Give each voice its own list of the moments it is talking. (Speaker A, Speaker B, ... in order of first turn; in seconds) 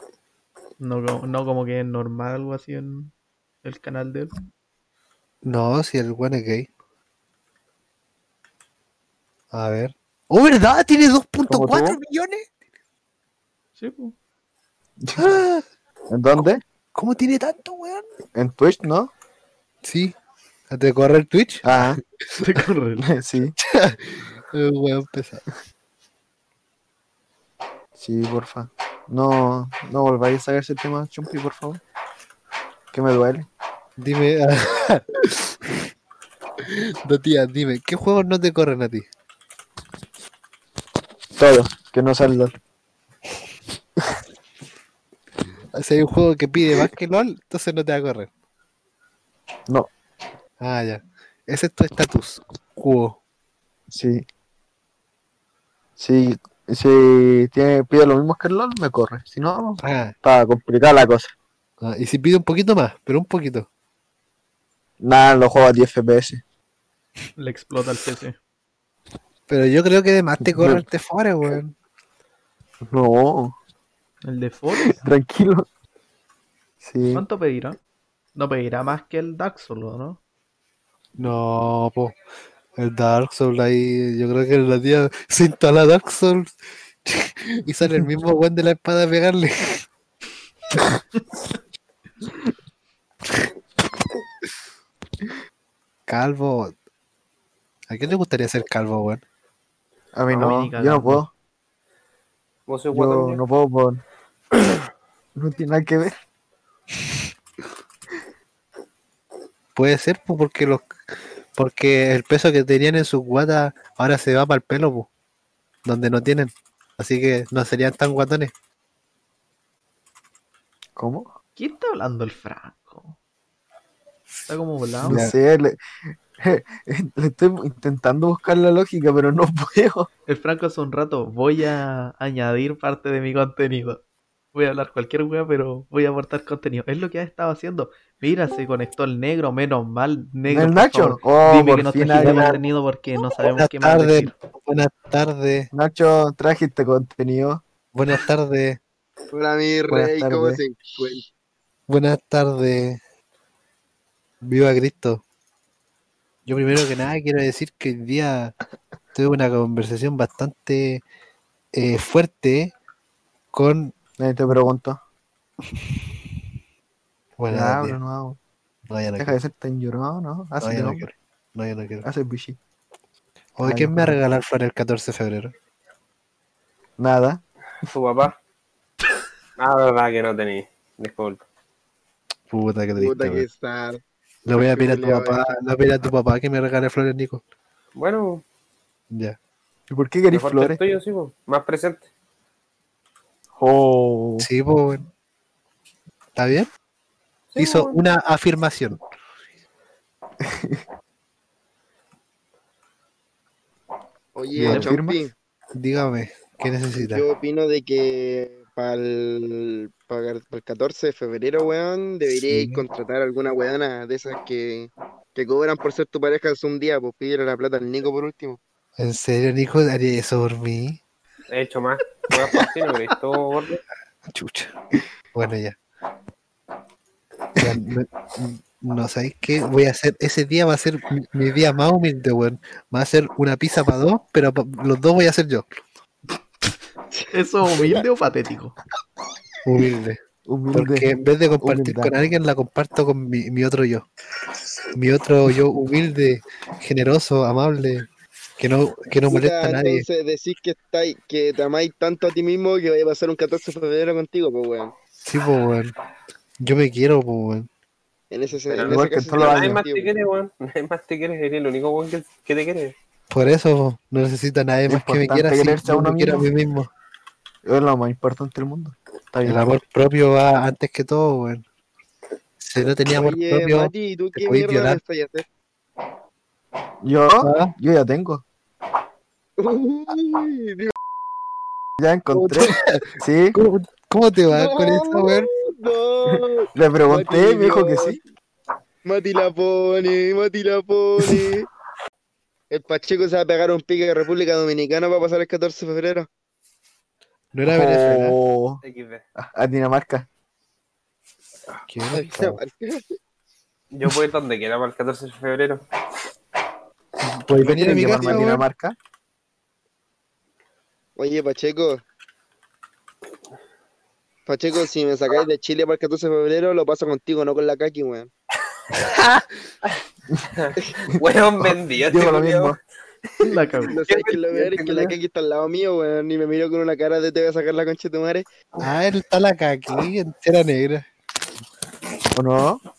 Speaker A: 0.8-3.1, 3.6-4.3, 13.8-14.2, 22.4-23.1, 67.4-68.4, 74.2-75.0, 77.1-77.8, 78.4-80.2, 100.3-101.2, 121.6-123.2, 124.5-125.2, 130.3-134.0, 134.5-144.3, 237.3-238.8, 323.4-323.9
Speaker B: 5.4-6.7, 9.5-12.5, 15.2-15.7, 16.4-18.1, 19.8-20.1, 20.7-22.0, 23.6-25.4, 34.0-35.9, 36.6-39.1, 45.7-48.3, 50.6-53.2, 59.8-60.1, 61.8-63.7, 69.5-71.7, 81.2-82.1, 82.8-89.8, 96.1-96.7, 97.9-99.2, 109.8-110.9, 111.5-115.1, 115.8-118.5, 125.0-125.3, 143.6-145.7, 147.9-148.8, 151.9-153.0, 154.4-155.2, 156.5-158.6, 159.1-161.0, 161.7-162.7, 163.5-163.9, 165.7-166.0, 167.4-168.0, 168.9-169.4, 170.6-172.1, 173.6-175.5, 182.5-183.4, 184.5-187.4, 189.1-189.4, 194.4-195.1, 196.4-196.7, 197.6-199.0, 204.6-204.9, 205.8-207.2, 212.4-212.8, 219.0-221.0, 224.3-224.7, 225.3-225.8, 227.6-235.7, 239.7-240.2, 240.7-244.1, 244.9-248.1, 248.6-250.0, 255.2-255.9, 256.6-257.7, 263.3-266.9, 269.5-271.6, 272.6-275.0, 277.4-277.7, 282.3-285.5, 297.5-298.4, 301.9-302.6, 307.2-308.6, 319.0-319.4, 328.8-331.1
Speaker C: 11.5-12.0, 15.0-15.4, 16.1-16.6, 18.4-19.1, 21.6-22.0, 23.1-23.6, 28.0-31.8, 32.9-33.5, 41.4-42.5, 53.9-54.2, 56.0-61.3, 65.0-66.4, 70.4-70.8, 72.8-73.5, 74.9-75.7, 76.8-77.2, 100.2-101.3, 102.9-104.0, 105.3-106.1, 121.0-121.3, 125.0-125.8, 126.4-130.1, 140.5-142.6, 145.7-147.6, 149.9-150.6, 164.2-165.0, 167.5-168.4, 169.2-171.1, 172.0-172.6, 173.6-174.2, 177.0-177.4, 189.9-190.8, 193.6-194.5, 200.4-200.8, 204.6-205.2, 240.5-242.1, 258.9-259.8, 264.9-266.5, 267.6-269.6, 277.0-278.4, 282.0-283.6, 286.3-288.2, 297.7-298.8, 299.4-300.3, 307.6-309.0, 322.1-322.8, 332.3-332.8
Speaker D: 102.7-103.4, 177.8-178.3, 179.6-181.4, 188.0-188.4, 190.3-192.1, 197.5-198.0, 221.5-223.8, 258.7-262.9, 298.8-299.2, 303.9-305.8, 320.5-322.8
Speaker E: 149.3-151.3, 183.0-185.5, 204.3-205.3, 207.0-218.6, 249.3-254.9, 258.3-260.1, 273.1-275.4, 279.6-280.9, 284.5-288.2, 289.1-291.7, 292.7-296.3, 302.1-303.1, 311.2-312.0, 314.5-318.3, 323.8-328.5